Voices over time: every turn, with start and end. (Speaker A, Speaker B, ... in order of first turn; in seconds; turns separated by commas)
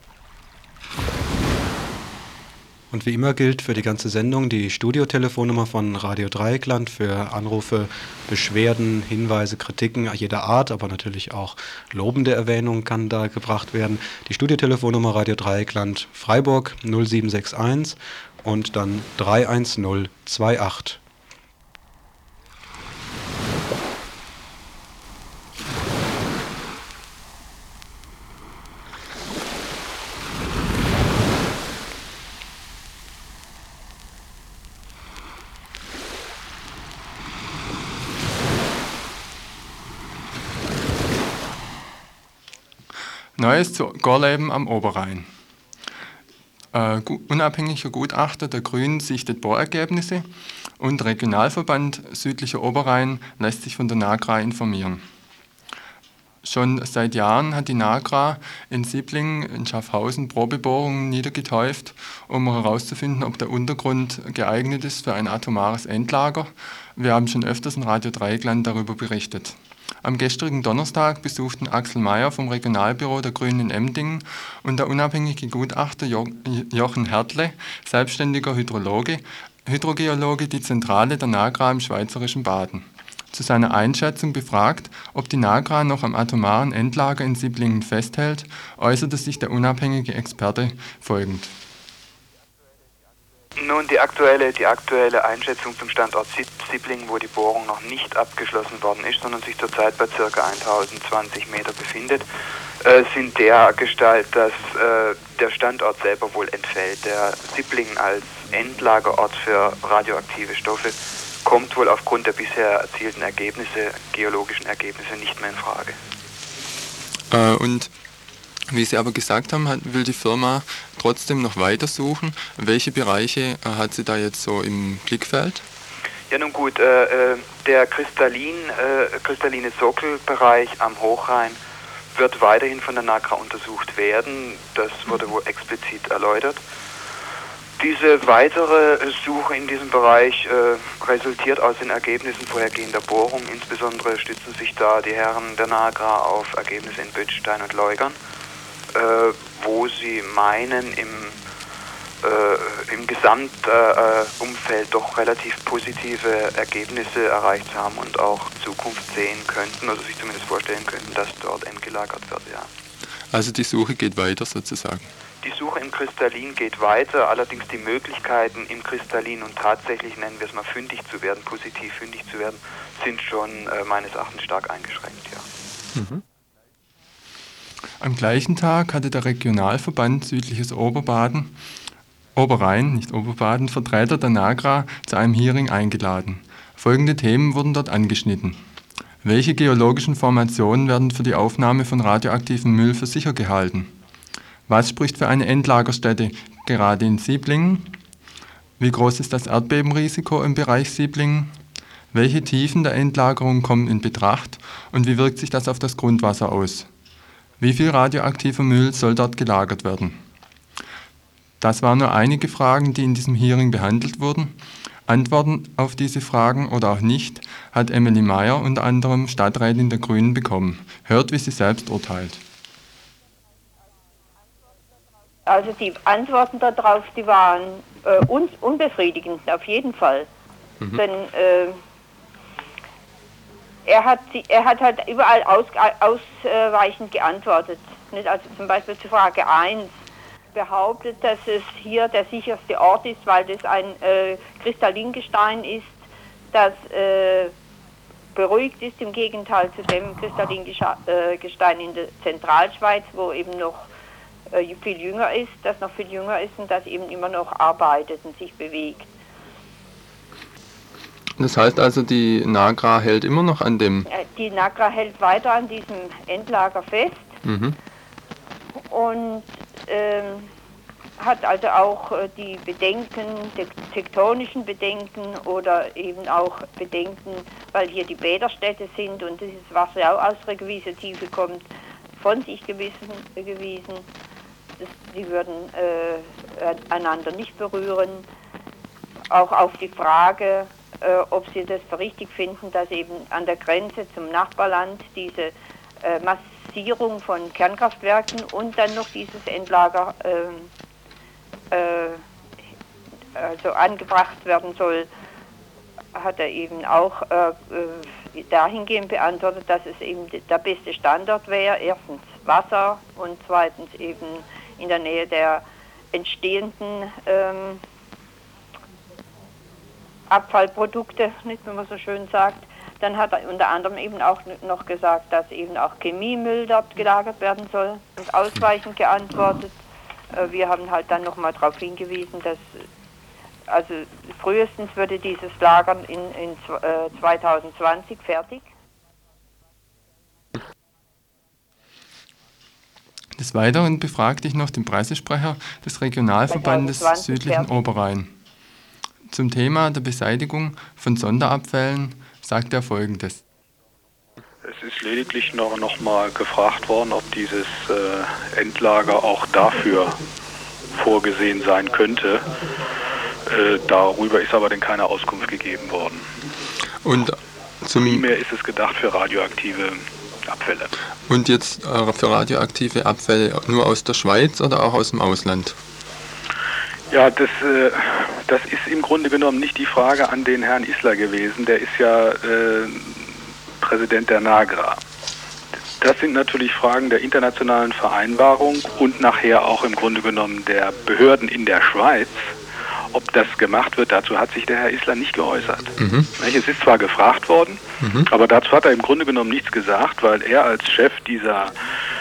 Speaker A: 2.9-21.0, Speaker B: 43.4-45.3, Speaker B: 46.7-50.3, Speaker B: 50.8-55.0, Speaker B: 56.4-91.5, Speaker C: 93.6-102.2, Speaker C: 102.8-116.0, Speaker B: 117.3-117.9, Speaker B: 118.7-125.6, Speaker C: 126.3-131.6, Speaker C: 132.1-136.6, Speaker C: 137.8-148.2, Speaker C: 148.9-151.4, Speaker C: 152.2-162.7, Speaker B: 163.3-165.1, Speaker C: 165.4-175.5, Speaker B: 175.9-176.2, Speaker B: 178.0-181.5, Speaker B: 182.3-188.6, Speaker B: 189.2-193.9, Speaker B: 194.7-197.9, Speaker B: 198.8-201.5, Speaker B: 202.1-206.9, Speaker B: 207.6-210.2, Speaker B: 211.6-214.5, Speaker B: 215.1-222.4, Speaker D: 225.4-230.3, Speaker D: 230.9-231.8, Speaker D: 233.8-239.9, Speaker D: 240.5-246.0, Speaker D: 246.5-247.5, Speaker D: 248.3-253.9, Speaker D: 254.5-259.1, Speaker B: 261.4-264.1, Speaker D: 264.1-267.3, Speaker B: 267.4-267.8, Speaker D: 268.8-270.5, Speaker D: 271.2-284.1, Speaker D: 284.8-288.2, Speaker D: 289.3-300.7, Speaker D: 301.7-302.2, Speaker D: 303.4-305.1, Speaker D: 306.1-317.8, Speaker D: 320.3-329.7, Speaker D: 330.3-332.8, Speaker D: 333.7-338.6, Speaker B: 343.4-348.3, Speaker D: 346.5-347.7, Speaker B: 349.3-353.4, Speaker E: 354.6-360.2, Speaker E: 360.9-362.4, Speaker E: 363.5-366.3, Speaker B: 367.0-368.3, Speaker E: 367.9-370.9, Speaker B: 371.3-375.8, Speaker E: 377.1-385.0, Speaker E: 386.0-392.5, Speaker E: 393.1-401.8, Speaker B: 396.0-396.3, Speaker B: 398.0-398.3